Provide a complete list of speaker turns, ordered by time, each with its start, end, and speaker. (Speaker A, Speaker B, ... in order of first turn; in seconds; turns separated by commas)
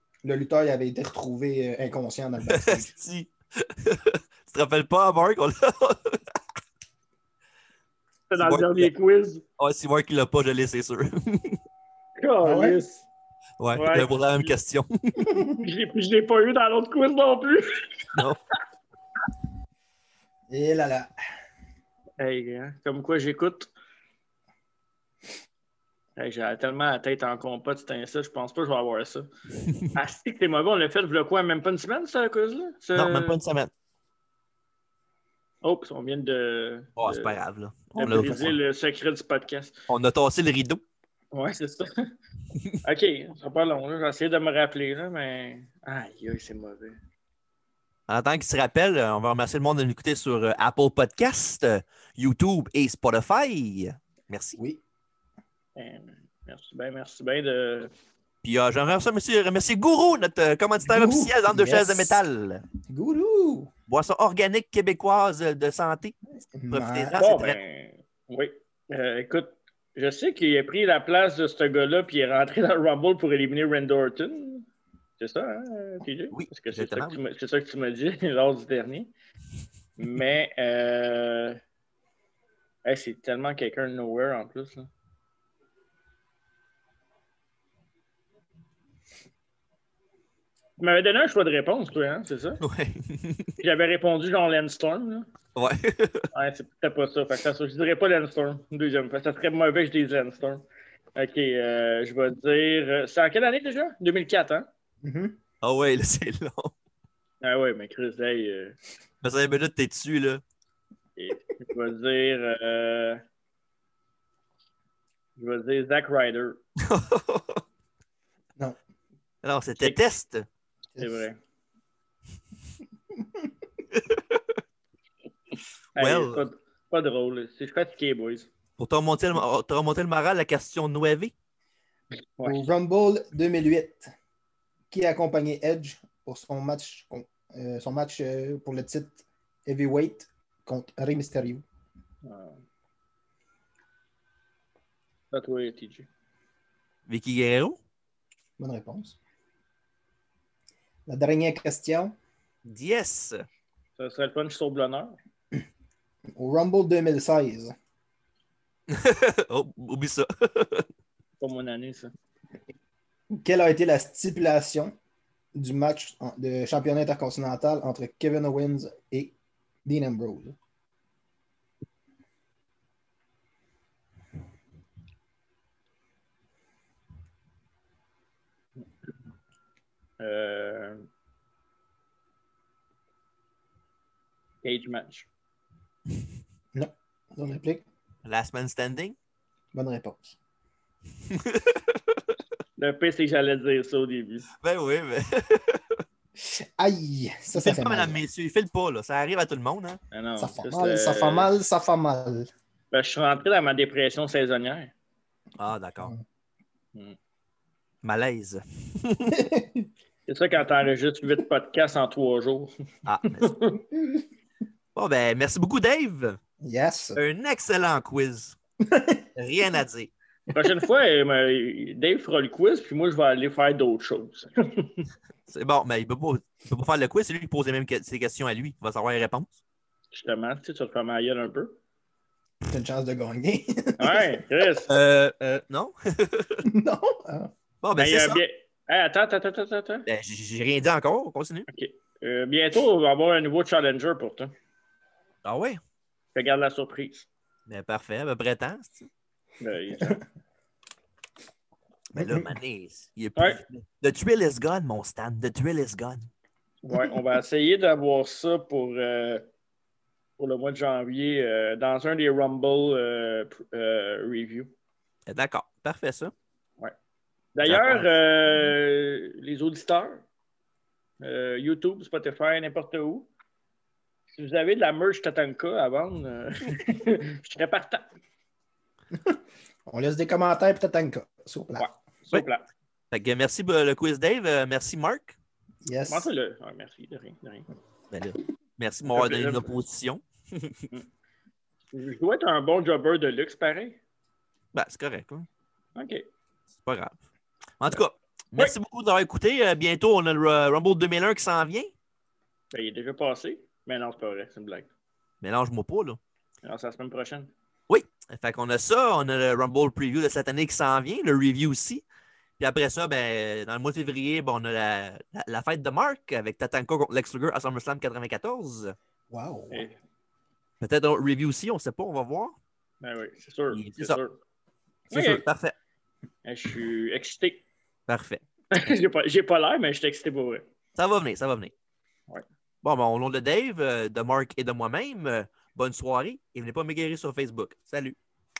Speaker A: 0.2-2.9, Speaker B: 2.5-6.2, Speaker C: 8.3-9.4, Speaker B: 8.3-8.9, Speaker B: 9.6-11.6, Speaker C: 12.2-13.1, Speaker A: 12.4-12.8, Speaker B: 13.6-15.3, Speaker C: 13.7-14.5, Speaker A: 15.3-15.6, Speaker C: 15.6-18.2, Speaker B: 18.1-18.4, Speaker A: 20.5-21.1, Speaker C: 22.2-23.7, Speaker C: 26.1-29.3, Speaker B: 29.6-29.9, Speaker C: 29.9-33.4, Speaker B: 32.9-33.7, Speaker C: 35.6-37.4, Speaker B: 37.0-38.6, Speaker C: 38.0-39.8, Speaker B: 39.9-40.8, Speaker C: 41.3-42.1, Speaker C: 42.8-47.0, Speaker B: 48.1-54.6, Speaker C: 55.8-57.9, Speaker B: 58.4-62.6, Speaker A: 60.8-62.1, Speaker A: 62.9-63.7, Speaker B: 63.9-66.1, Speaker A: 66.5-67.3, Speaker B: 66.7-67.6, Speaker C: 67.1-74.7, Speaker C: 75.2-79.1, Speaker B: 76.3-77.2, Speaker C: 80.0-81.6, Speaker C: 82.8-84.9, Speaker C: 90.8-92.6, Speaker B: 92.6-93.6, Speaker C: 93.6-95.3, Speaker B: 95.5-96.3, Speaker C: 96.3-104.7, Speaker A: 105.0-105.3, Speaker B: 105.6-106.7, Speaker C: 107.4-108.8, Speaker B: 109.2-110.4, Speaker C: 111.2-113.2, Speaker C: 115.3-116.6, Speaker B: 116.8-117.6, Speaker B: 119.4-120.5, Speaker A: 121.0-121.2, Speaker C: 121.0-121.4, Speaker B: 123.9-124.6, Speaker C: 125.9-128.5, Speaker B: 126.0-126.5, Speaker B: 128.8-131.3, Speaker C: 132.4-132.7, Speaker A: 132.4-134.1, Speaker A: 134.9-141.6, Speaker C: 142.2-142.6, Speaker C: 145.3-146.1, Speaker B: 147.1-147.8, Speaker A: 148.6-149.2, Speaker A: 151.1-152.1, Speaker B: 152.6-153.4, Speaker C: 154.0-155.1, Speaker A: 156.3-157.7, Speaker B: 158.9-160.9, Speaker C: 161.4-162.1, Speaker A: 163.4-164.9, Speaker A: 165.5-169.3, Speaker A: 169.8-170.6, Speaker C: 180.2-181.1, Speaker C: 184.6-185.3, Speaker A: 186.7-187.8, Speaker B: 188.2-189.2, Speaker A: 189.7-190.4, Speaker B: 191.3-192.2, Speaker C: 192.8-194.4, Speaker B: 194.6-196.0, Speaker A: 196.4-198.2, Speaker B: 197.5-200.0, Speaker C: 200.1-201.5, Speaker A: 200.4-202.5, Speaker C: 202.9-204.9, Speaker B: 205.6-206.1, Speaker B: 208.0-209.4, Speaker A: 209.4-209.8, Speaker C: 210.3-212.7, Speaker B: 213.1-213.5, Speaker C: 213.4-213.8, Speaker B: 214.9-216.4, Speaker A: 216.6-217.2, Speaker B: 217.2-218.6, Speaker A: 218.9-219.2, Speaker B: 219.3-220.1, Speaker C: 220.5-225.0, Speaker B: 225.5-229.6, Speaker C: 230.1-231.8, Speaker A: 232.7-234.4, Speaker C: 234.0-234.9, Speaker B: 234.9-236.6, Speaker A: 236.6-237.5, Speaker B: 237.8-238.4, Speaker C: 237.9-240.1, Speaker B: 240.1-241.7, Speaker C: 241.7-244.5, Speaker B: 245.4-245.8, Speaker C: 246.3-247.3, Speaker B: 247.7-249.1, Speaker C: 249.6-250.2, Speaker A: 252.1-252.5, Speaker B: 252.2-256.3, Speaker C: 253.3-253.6, Speaker C: 256.8-259.4, Speaker A: 256.9-257.2, Speaker C: 260.4-264.7, Speaker B: 265.3-266.3, Speaker C: 267.5-270.2, Speaker B: 267.6-268.1, Speaker C: 271.2-273.3, Speaker C: 274.3-278.1, Speaker A: 279.9-281.9, Speaker C: 281.8-282.7, Speaker B: 283.1-285.4, Speaker A: 285.8-286.3, Speaker C: 286.1-287.6, Speaker B: 288.1-290.8, Speaker C: 289.1-289.8, Speaker C: 291.9-294.0, Speaker B: 294.7-295.4, Speaker C: 295.9-296.2, Speaker B: 296.8-297.2, Speaker B: 297.8-301.9, Speaker C: 302.7-304.9, Speaker B: 305.4-306.2, Speaker C: 306.6-307.5, Speaker B: 307.9-312.0, Speaker B: 312.6-318.9, Speaker A: 319.3-319.9, Speaker C: 319.7-320.0, Speaker B: 320.8-322.6, Speaker C: 323.0-324.4, Speaker B: 323.7-324.2, Speaker C: 325.1-325.4, Speaker B: 325.1-325.7, Speaker C: 326.4-327.6, Speaker B: 328.1-328.4, Speaker C: 328.7-330.6, Speaker B: 330.9-331.7, Speaker B: 332.8-338.1